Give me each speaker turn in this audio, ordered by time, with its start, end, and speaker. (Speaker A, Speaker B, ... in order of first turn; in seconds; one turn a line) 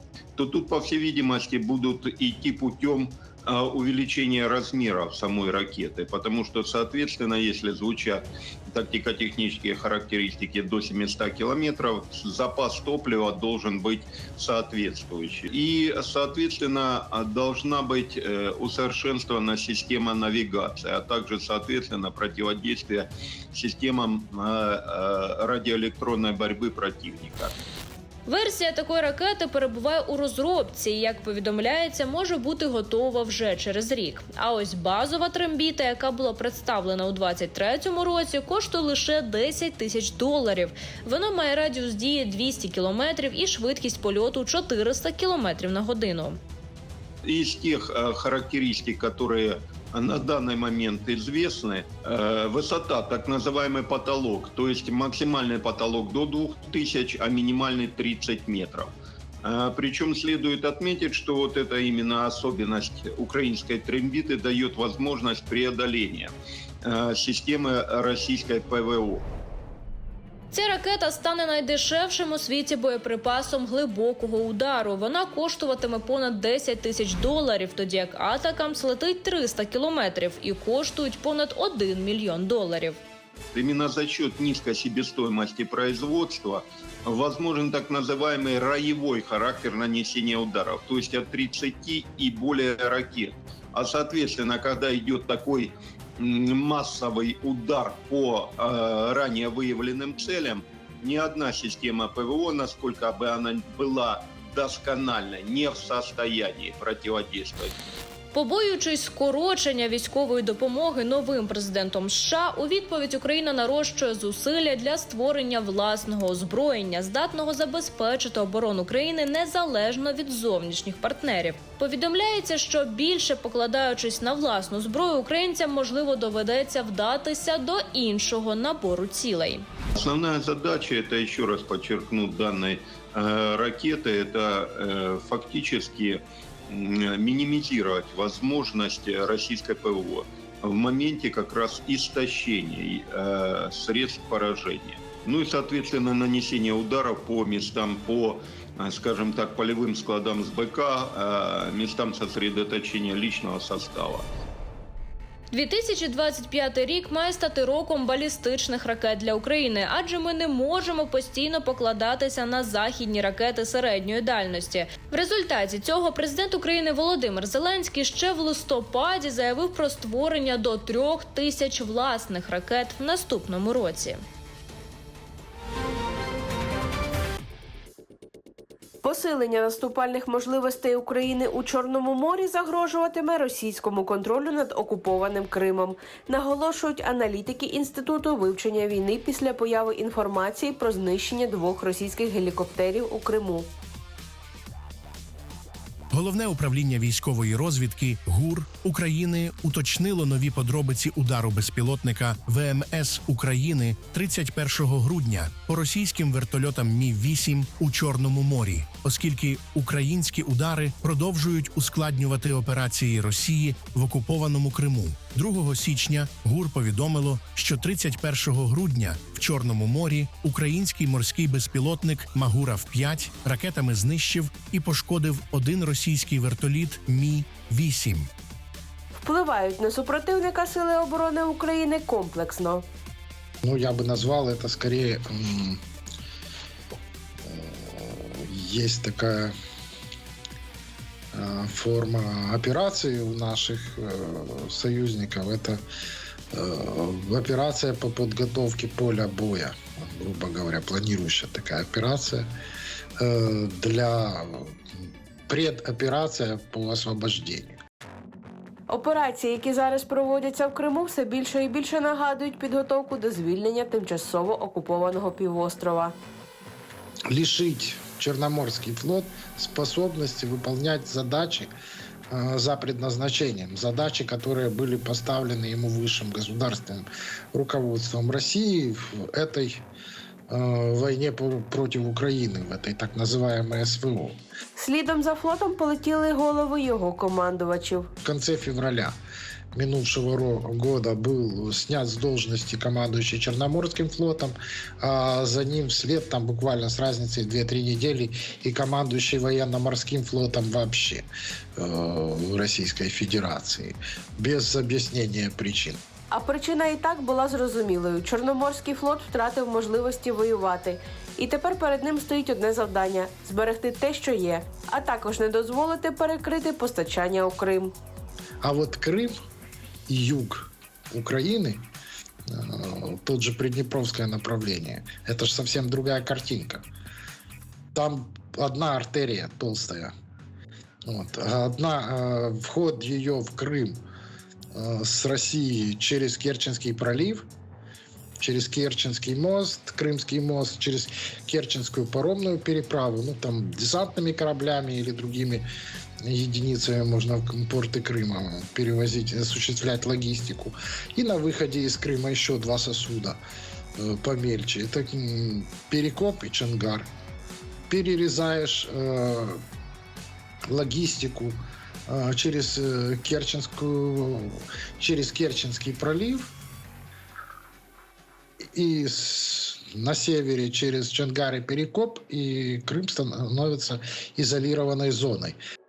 Speaker A: 0.4-27.5
Speaker B: 28.2-46.4
Speaker A: 47.2-66.3
Speaker A: 66.8-69.3
Speaker B: 70.5-83.0
Speaker A: 83.5-107.7
Speaker B: 108.3-129.6
Speaker A: 129.9-154.3
Speaker B: 155.5-174.2
Speaker C: 179.0-193.7
Speaker D: 196.1-228.3
Speaker C: 229.2-232.8
Speaker E: 233.6-235.8
Speaker E: 237.4-239.5
Speaker E: 241.3-245.8
Speaker E: 246.5-252.5
Speaker E: 253.2-254.7
Speaker E: 255.5-257.8
Speaker C: 258.9-266.1
Speaker E: 267.3-271.7
Speaker E: 272.3-279.8
Speaker E: 280.5-284.4
Speaker C: 284.7-288.1
Speaker E: 288.2-289.2
Speaker E: 289.7-306.0
Speaker C: 306.3-317.9
Speaker E: 318.6-319.3
Speaker E: 320.1-321.8
Speaker E: 322.5-326.8
Speaker E: 327.9-330.1
Speaker E: 331.1-334.0
Speaker E: 334.7-337.5
Speaker E: 338.4-345.6
Speaker E: 346.2-353.4
Speaker E: 354.0-357.1
Speaker E: 357.9-359.6
Speaker E: 360.7-366.5
Speaker E: 368.7-375.6